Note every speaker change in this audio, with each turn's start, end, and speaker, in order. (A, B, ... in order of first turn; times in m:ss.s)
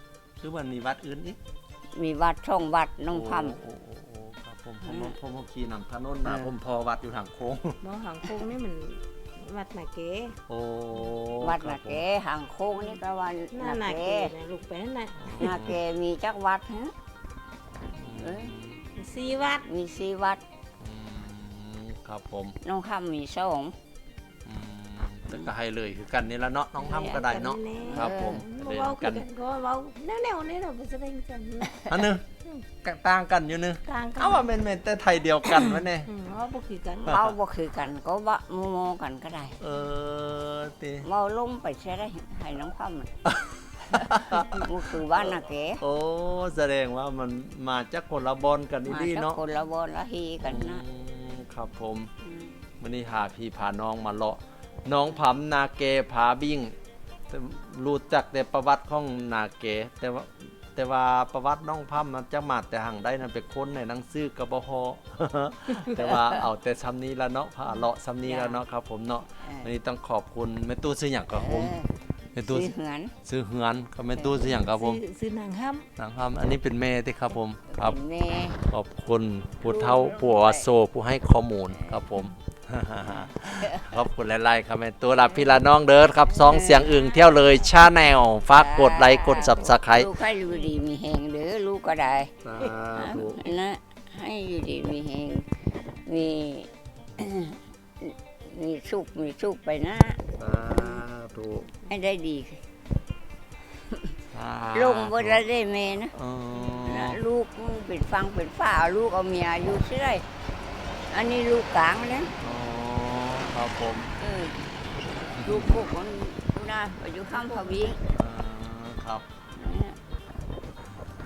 0:00.4-0:01.4 A
0:02.0-0:03.5 B
0:03.1-0:07.8 A
0:04.8-0:05.1 B
0:06.2-0:06.5 B
0:07.8-0:10.4 C
0:10.5-0:12.0 A
0:11.4-0:14.3 B
0:13.5-0:15.5 C
0:15.2-0:15.8 A
0:15.4-0:16.9 B
0:17.9-0:18.9 A
0:18.2-0:18.5 B
0:19.0-0:19.6 C
0:19.6-0:20.4 B
0:20.8-0:22.6 A
0:22.6-0:23.7 B
0:24.4-0:29.2 A
0:26.8-0:31.9 C
0:27.8-0:28.4 B
0:31.9-0:32.3 A
0:32.8-0:36.1 A
0:33.8-0:34.5 C
0:35.7-0:37.2 C
0:37.0-0:37.3 A
0:37.1-0:39.6 B
0:39.6-0:41.1 A
0:41.0-0:43.1 B
0:43.2-0:49.4 A
0:43.9-0:45.8 B
0:48.9-0:50.8 B
0:50.4-0:52.1 A
0:52.2-0:52.6 B
0:52.8-0:56.7 A
0:57.3-1:11.8 A
1:08.2-1:08.6 B
1:09.4-1:09.7 B
1:11.3-1:13.1 B
1:12.3-1:12.7 A
1:13.2-1:15.0 A
1:14.2-1:15.9 C
1:16.0-1:18.0 A
1:17.7-1:18.6 B
1:18.7-1:30.1 A
1:19.6-1:20.7 B
1:26.3-1:27.1 B
1:28.5-1:32.3 B
1:32.4-1:33.5 A
1:33.0-1:35.5 B
1:36.0-1:41.0 B
1:40.4-1:41.7 A
1:41.8-1:42.6 B
1:44.3-1:45.4 A
1:44.7-1:46.1 B
1:46.1-1:47.2 A
1:46.7-1:50.2 B
1:51.1-1:52.3 B
1:52.4-1:54.1 A
1:54.2-1:54.6 B
1:55.2-1:55.8 A
1:55.3-1:58.0 B
1:58.1-1:59.3 A
1:59.5-2:00.0 B